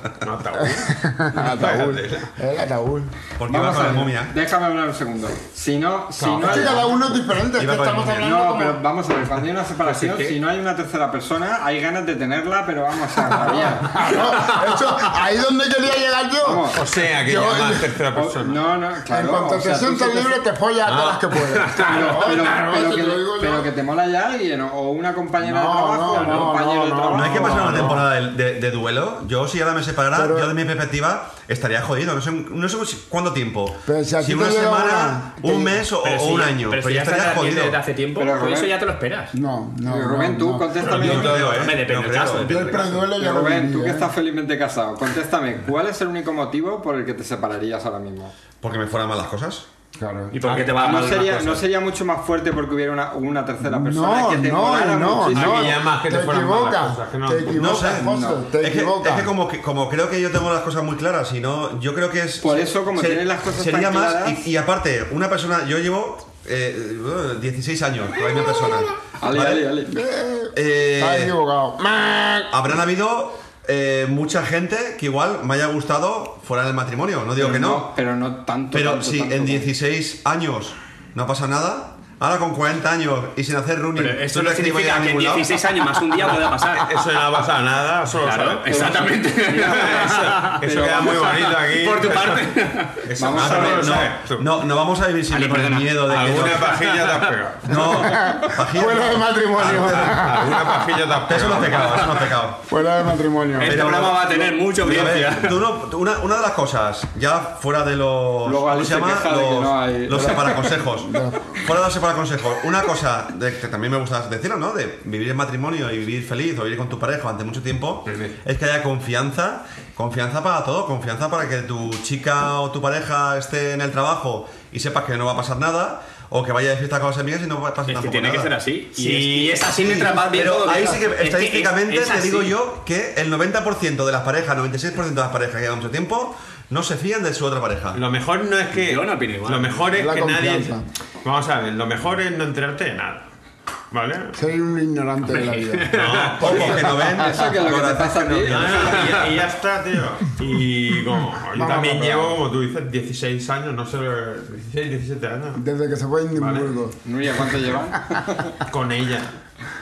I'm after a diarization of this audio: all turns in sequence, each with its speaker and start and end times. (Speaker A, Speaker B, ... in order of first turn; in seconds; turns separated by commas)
Speaker A: 0.2-2.3, Speaker B: 0.6-3.1, Speaker C: 3.4-4.3, Speaker D: 3.5-7.1, Speaker A: 6.2-6.9, Speaker B: 6.4-8.8, Speaker C: 7.5-8.6, Speaker D: 8.2-14.2, Speaker E: 9.8-10.4, Speaker B: 13.6-17.9, Speaker D: 16.4-16.8, Speaker A: 16.7-18.6, Speaker D: 18.2-20.4, Speaker B: 19.1-23.7, Speaker A: 20.9-21.2, Speaker E: 21.5-22.4, Speaker D: 21.8-28.0, Speaker B: 25.4-28.0, Speaker E: 26.2-26.5, Speaker C: 27.1-37.8, Speaker A: 27.6-28.0, Speaker B: 30.1-30.5, Speaker B: 33.9-35.8, Speaker E: 36.0-39.3, Speaker D: 38.2-38.7, Speaker B: 39.3-40.7, Speaker D: 39.9-41.7, Speaker A: 40.8-41.7, Speaker C: 40.9-42.8, Speaker E: 40.9-43.0, Speaker B: 42.4-44.1, Speaker D: 43.2-48.3, Speaker C: 48.6-49.7, Speaker B: 50.0-50.4, Speaker E: 50.3-51.6, Speaker D: 50.5-55.8, Speaker B: 53.6-59.3, Speaker A: 55.3-57.6, Speaker C: 57.5-69.7, Speaker D: 58.0-58.5, Speaker D: 62.4-64.4, Speaker D: 69.2-70.0, Speaker B: 69.9-72.6, Speaker C: 70.5-71.3, Speaker C: 72.5-77.9, Speaker D: 77.4-79.7, Speaker C: 78.7-85.6, Speaker E: 84.0-86.9, Speaker A: 86.7-94.5, Speaker E: 88.2-93.1, Speaker D: 88.7-90.1, Speaker D: 90.7-91.1, Speaker D: 93.2-94.0, Speaker C: 93.3-96.8, Speaker E: 95.3-97.3, Speaker A: 96.1-97.9, Speaker C: 97.7-100.2, Speaker B: 97.8-100.9, Speaker A: 99.6-102.3, Speaker C: 101.3-102.7, Speaker B: 102.7-103.8, Speaker E: 103.6-105.6, Speaker C: 103.6-128.5, Speaker D: 108.5-110.8, Speaker B: 110.2-110.4, Speaker B: 111.0-111.6, Speaker A: 118.1-118.4, Speaker E: 127.9-132.6, Speaker A: 129.0-130.1, Speaker C: 129.8-138.0, Speaker A: 137.9-143.3, Speaker E: 138.8-139.8, Speaker B: 139.9-140.8, Speaker A: 143.9-144.4, Speaker B: 144.3-145.9, Speaker E: 145.3-146.7, Speaker A: 145.9-146.9, Speaker C: 146.4-149.3, Speaker D: 146.6-149.2, Speaker B: 146.6-147.5, Speaker A: 148.4-155.6, Speaker B: 151.6-152.4, Speaker B: 155.6-157.0, Speaker A: 156.3-156.8, Speaker D: 157.1-158.6, Speaker A: 158.7-159.4